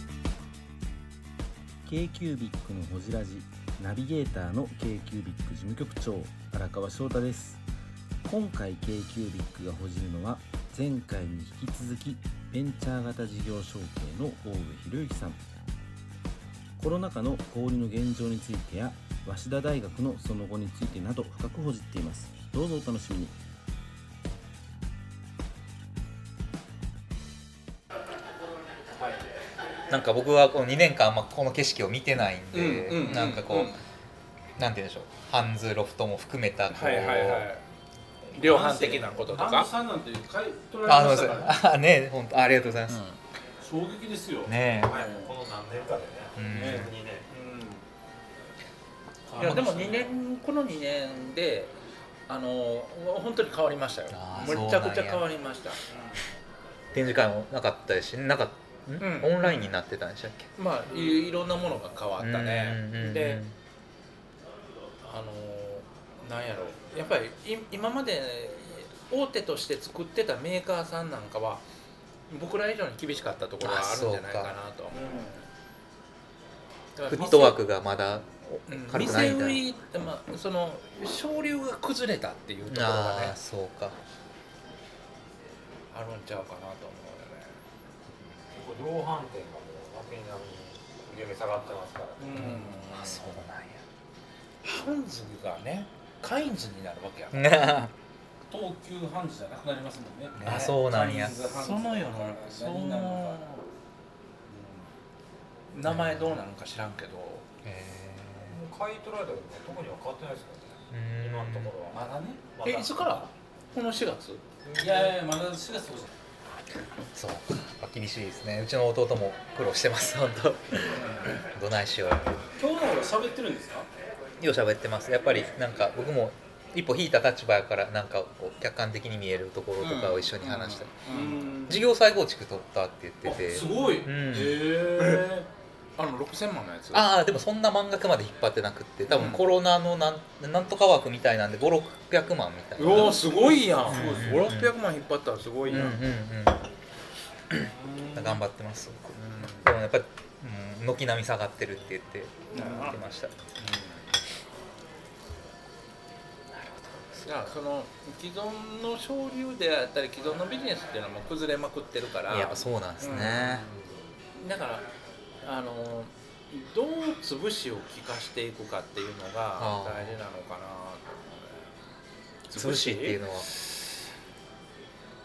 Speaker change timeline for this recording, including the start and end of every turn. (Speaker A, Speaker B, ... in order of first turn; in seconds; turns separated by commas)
Speaker A: 1.9-7.6, Speaker A: 8.2-15.4, Speaker A: 16.8-23.4, Speaker B: 29.9-33.8, Speaker C: 32.5-33.8, Speaker B: 34.6-37.5, Speaker C: 36.7-37.6, Speaker C: 38.3-39.7, Speaker D: 38.4-41.6, Speaker B: 40.9-43.0, Speaker C: 42.6-43.2, Speaker D: 43.6-44.5, Speaker B: 44.5-45.0, Speaker E: 44.8-47.2, Speaker B: 46.4-46.9, Speaker D: 46.5-47.8, Speaker D: 49.3-50.0, Speaker C: 49.4-51.7, Speaker C: 52.3-55.8, Speaker B: 54.1-55.3, Speaker B: 56.9-60.5, Speaker C: 59.0-59.7, Speaker C: 60.6-63.4, Speaker B: 62.2-63.5, Speaker C: 65.0-71.6, Speaker C: 72.3-75.1, Speaker B: 73.6-74.5, Speaker D: 74.9-75.4, Speaker C: 77.0-77.6, Speaker B: 77.1-79.6, Speaker C: 78.7-83.4, Speaker B: 82.7-84.0, Speaker C: 85.9-87.6, Speaker E: 88.5-92.5, Speaker D: 92.2-92.8, Speaker C: 92.3-93.3, Speaker B: 92.3-93.8, Speaker C: 94.6-97.6, Speaker B: 97.3-97.9, Speaker D: 98.5-103.4, Speaker C: 100.4-103.6, Speaker B: 100.4-101.4, Speaker D: 104.5-104.9, Speaker C: 105.7-107.5, Speaker B: 105.8-106.4, Speaker B: 107.6-108.6, Speaker E: 108.4-112.0, Speaker B: 110.9-111.7, Speaker D: 111.9-112.5, Speaker E: 112.5-113.3, Speaker C: 112.6-114.4, Speaker E: 114.6-115.2, Speaker D: 114.8-116.1, Speaker B: 117.2-122.2, Speaker D: 122.6-123.9, Speaker B: 124.4-130.9, Speaker C: 129.8-131.4, Speaker D: 131.1-131.8, Speaker B: 131.7-134.7, Speaker D: 133.3-135.5, Speaker C: 136.0-137.1, Speaker B: 136.9-143.2, Speaker C: 139.1-139.4, Speaker C: 142.8-146.0, Speaker D: 142.9-144.4, Speaker B: 143.8-144.7, Speaker B: 145.7-146.7, Speaker B: 147.6-153.3, Speaker C: 149.1-149.7, Speaker C: 152.5-153.0, Speaker C: 153.6-154.1, Speaker B: 156.6-157.5, Speaker C: 157.2-163.6, Speaker B: 162.3-163.7, Speaker E: 163.4-164.1, Speaker C: 164.4-164.9, Speaker C: 165.4-171.6, Speaker B: 169.6-170.2, Speaker C: 172.5-173.4, Speaker B: 172.5-173.5